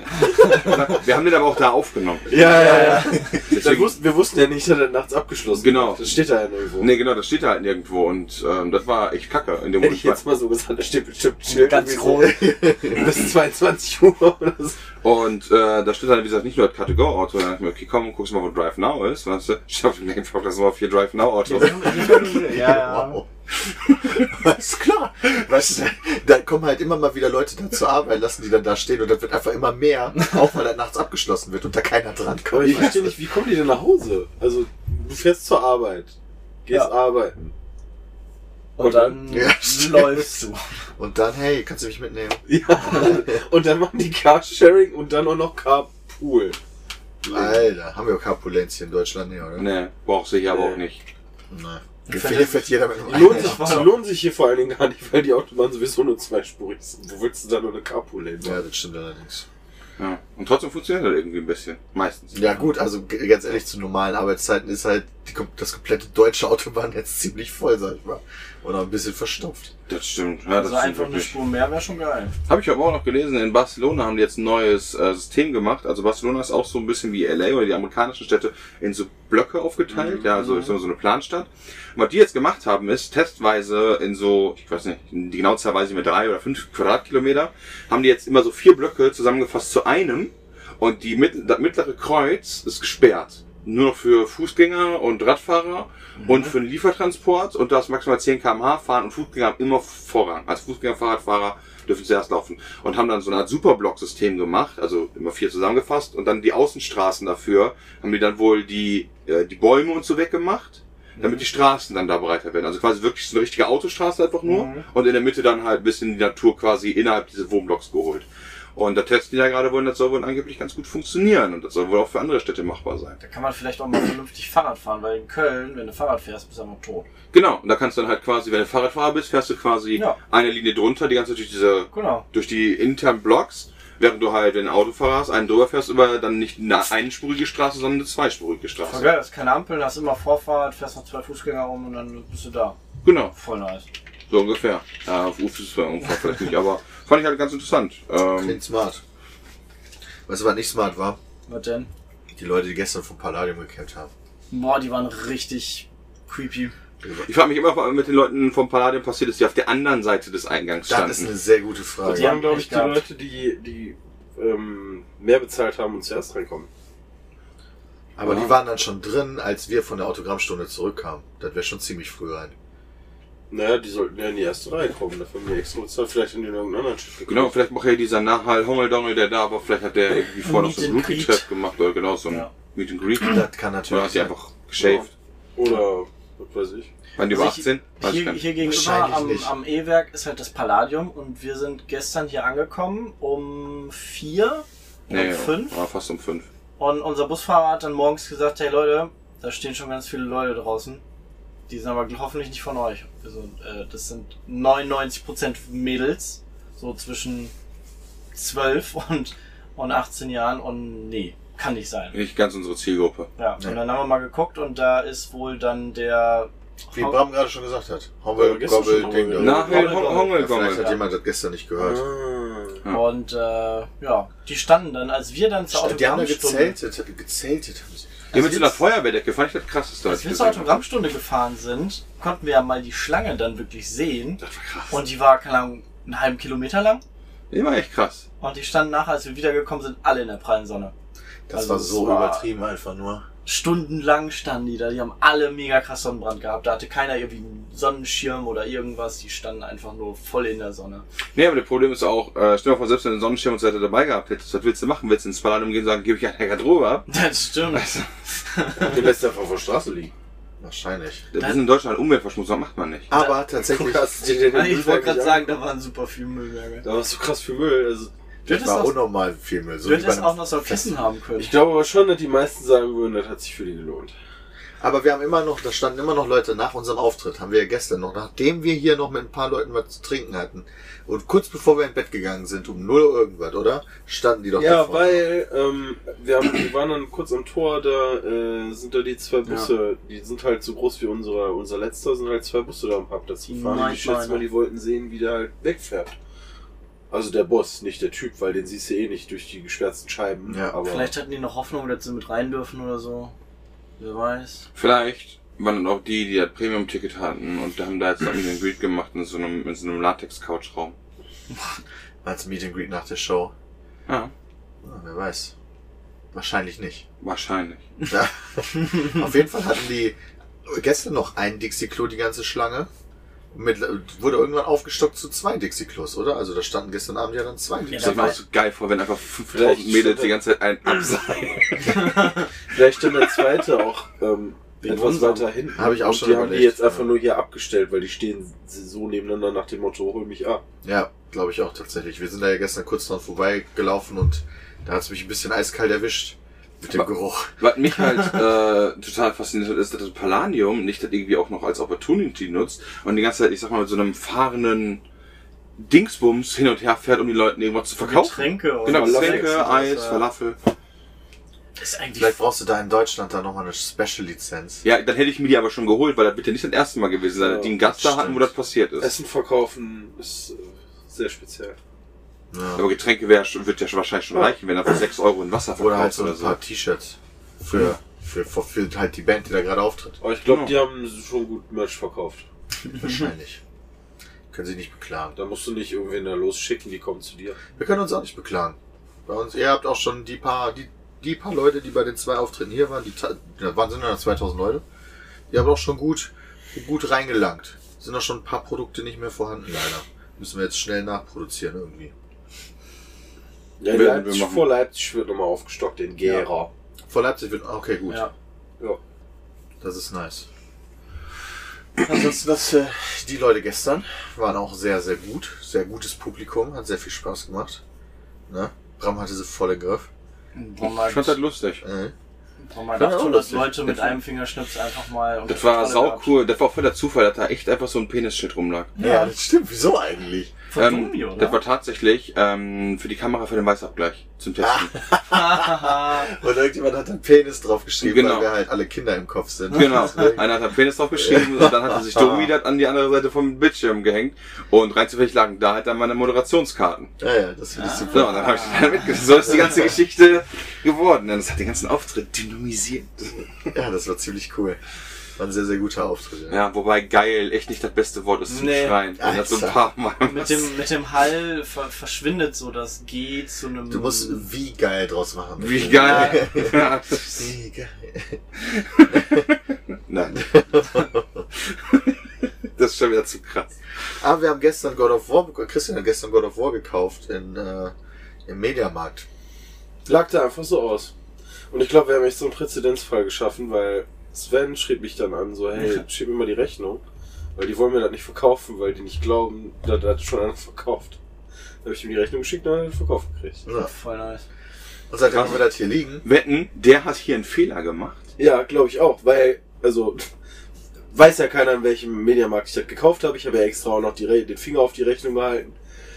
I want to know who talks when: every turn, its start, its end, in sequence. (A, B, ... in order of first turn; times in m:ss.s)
0:00.3-0:04.0 A
0:02.3-0:06.9 B
0:02.4-0:03.4 C
0:05.5-0:06.2 A
0:06.8-0:10.2 A
0:09.8-0:14.8 B
0:11.5-0:12.5 C
0:12.2-0:13.1 D
0:15.0-0:22.2 A
0:21.4-0:23.2 C
0:21.5-0:23.3 D
0:23.8-0:33.2 D
0:32.5-0:36.1 B
0:36.6-0:37.4 B
0:38.8-0:40.6 C
0:38.8-0:39.2 B
0:39.2-0:40.4 D
0:41.0-0:43.4 D
0:42.5-0:46.6 B
0:47.2-0:47.6 B
0:47.3-0:49.7 D
0:49.6-0:51.0 A
0:50.5-0:50.8 B
0:51.5-0:53.9 D
0:52.0-0:53.9 C
0:53.1-0:58.6 B
0:58.4-0:59.4 D
1:00.0-1:02.5 A
1:02.3-1:09.7 D
1:09.9-1:11.3 A
1:10.6-1:12.4 C
1:12.5-2:03.2 A
1:19.9-1:20.3 B
1:20.3-1:20.7 C
1:36.2-1:36.5 C
1:51.2-1:51.4 C
1:54.4-1:54.8 C
2:03.2-2:07.1 C
2:07.3-2:19.1 A
2:11.9-2:12.2 C
2:18.8-2:22.8 C
2:23.0-2:23.3 A
2:23.3-2:23.8 C
2:24.3-2:28.6 A
2:28.4-2:29.0 D
2:30.3-2:31.2 D
2:31.5-2:31.9 C
2:32.3-2:34.1 D
2:34.5-2:36.7 C
2:37.0-2:37.3 D
2:37.2-2:41.3 A
2:40.9-2:42.4 D
2:42.0-2:46.7 B
2:42.0-2:43.0 C
2:48.2-2:52.5 D
2:53.5-2:57.5 B
2:57.3-3:05.1 A
3:00.4-3:01.4 C
3:03.2-3:04.3 D
3:04.8-3:06.9 B
3:07.2-3:08.4 A
3:07.3-3:15.8 C
3:08.6-3:09.5 D
3:15.1-3:16.5 A
3:16.8-3:21.0 C
3:21.7-3:27.5 C
3:28.3-3:32.2 C
3:32.1-3:33.3 A
3:33.4-3:37.2 C
3:36.9-3:42.0 D
3:38.3-3:39.8 B
3:39.4-3:40.9 A
3:39.6-3:41.0 C
3:41.8-3:42.8 B
3:42.9-3:46.8 C
3:45.7-3:48.2 D
3:48.3-3:50.8 A
3:48.3-3:48.7 C
3:50.0-3:57.0 C
3:54.4-3:55.0 A
3:57.5-3:58.2 A
3:58.4-4:00.9 C
4:01.5-4:03.2 D
4:01.5-4:02.4 C
4:03.4-4:11.0 C
4:11.3-4:17.1 A
4:17.1-4:19.1 C
4:17.7-4:18.1 A
4:18.8-4:20.1 B
4:20.6-4:21.2 D
4:21.3-4:23.1 A
4:23.1-4:24.2 D
4:23.6-4:25.5 B
4:24.5-4:26.8 C
4:26.8-4:28.1 B
4:28.4-4:29.0 C
4:28.4-4:31.0 D
4:29.8-4:31.5 C
4:31.4-4:34.1 B
4:34.8-4:45.2 D
4:44.6-4:56.1 B
4:49.4-4:49.7 C
4:53.5-4:54.4 C
4:57.1-5:01.1 B
5:00.5-5:00.8 D
5:00.8-5:03.3 C
5:04.0-5:04.6 C
5:04.7-5:10.9 A
5:12.2-5:13.5 D
5:14.1-5:14.3 A
5:14.8-5:15.5 D
5:16.3-5:17.0 D
5:17.2-5:17.8 A
5:18.1-5:22.9 D
5:23.5-5:28.4 D
5:27.9-5:28.4 C
5:28.0-5:32.1 A
5:29.5-5:30.4 B
5:31.9-5:32.4 C
5:32.7-5:40.6 B
5:34.8-5:35.5 C
5:35.7-5:37.2 D
5:40.8-5:47.5 D
5:47.6-5:55.0 A
5:55.8-6:00.6 A
5:58.0-6:00.2 C
5:58.8-5:59.6 B
6:01.8-6:02.4 C
6:02.2-6:04.8 D
6:04.8-6:09.2 A
6:07.4-6:07.7 B
6:07.8-6:08.5 D
6:09.0-6:11.8 B
6:12.5-6:12.8 D
6:12.8-6:16.6 A
6:15.8-6:20.2 D
6:20.2-6:22.4 B
6:20.4-6:20.8 A
6:22.9-6:23.6 D
6:24.5-6:25.4 D
6:25.3-6:27.6 B
6:27.8-6:34.8 D
6:35.5-6:42.1 D
6:43.8-6:46.7 B
6:43.9-6:44.7 A
6:47.1-6:48.3 D
6:49.8-6:50.5 D
6:52.0-6:57.8 D
6:58.5-7:00.1 D
7:00.5-7:01.4 C
7:00.8-7:01.8 A
7:01.8-7:02.1 D
7:02.6-7:06.3 C
7:03.0-7:04.0 D
7:05.5-7:08.9 A
7:09.0-7:09.3 C
7:09.0-7:10.5 D
7:10.7-7:11.6 C
7:10.7-7:14.9 A
7:14.6-7:20.5 D
7:15.3-7:16.3 C
7:18.0-7:18.5 A
7:19.7-7:27.1 A
7:21.2-7:22.5 D
7:27.2-7:28.6 D
7:27.8-7:29.0 C
7:28.1-7:33.3 A
7:33.7-7:34.8 D
7:35.4-7:36.6 D
7:36.5-7:40.7 A
7:38.5-7:39.0 C
7:39.2-7:39.8 D
7:40.2-7:44.4 C
7:43.9-7:48.4 D
7:45.6-7:47.5 A
7:46.0-7:46.4 C
7:48.6-7:49.6 A
7:49.1-7:49.4 D
7:50.1-7:50.8 A
7:50.3-7:51.4 D
7:51.7-7:52.1 A
7:52.8-7:53.7 A
7:54.2-7:57.9 D
7:58.4-7:59.2 D
8:00.0-8:01.1 B
8:01.7-8:07.0 B
8:07.6-8:11.2 B
8:11.8-8:13.6 B
8:13.6-8:13.9 D
8:13.7-8:14.4 C
8:15.1-8:16.2 D
8:15.3-8:15.6 A
8:16.2-8:18.2 A
8:18.4-8:20.2 B
8:21.1-8:25.7 B